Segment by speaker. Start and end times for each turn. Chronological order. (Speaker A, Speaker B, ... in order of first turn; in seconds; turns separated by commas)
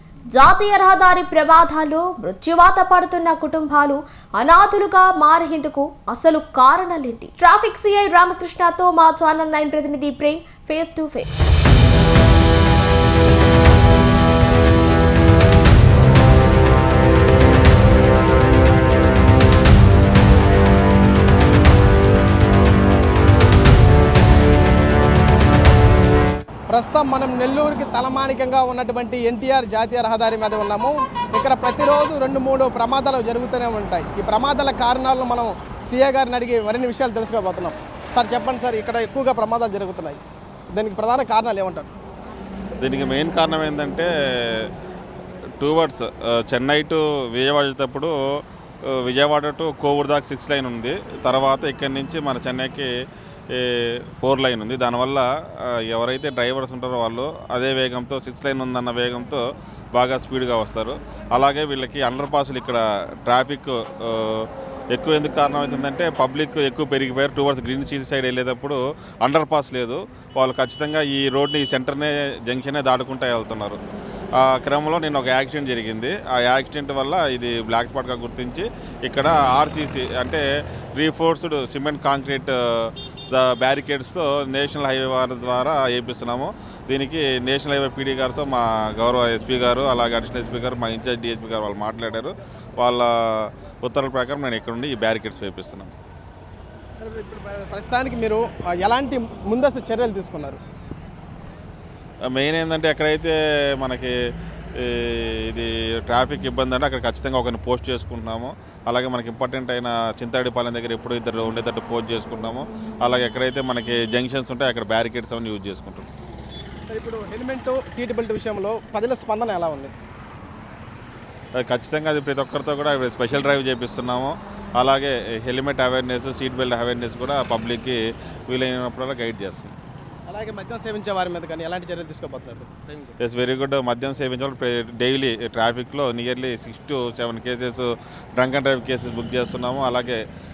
Speaker A: 0.3-11.3, Speaker B: 26.7-40.2, Speaker B: 40.7-41.9, Speaker C: 42.8-44.7, Speaker C: 45.6-48.1, Speaker C: 48.9-52.9, Speaker C: 53.5-59.4, Speaker C: 59.9-73.8, Speaker C: 74.4-80.4, Speaker C: 81.0-95.9, Speaker B: 97.0-100.6, Speaker C: 102.3-104.2, Speaker C: 104.8-116.1, Speaker B: 116.9-119.9, Speaker C: 121.6-129.7, Speaker B: 130.3-133.2, Speaker C: 133.2-140.2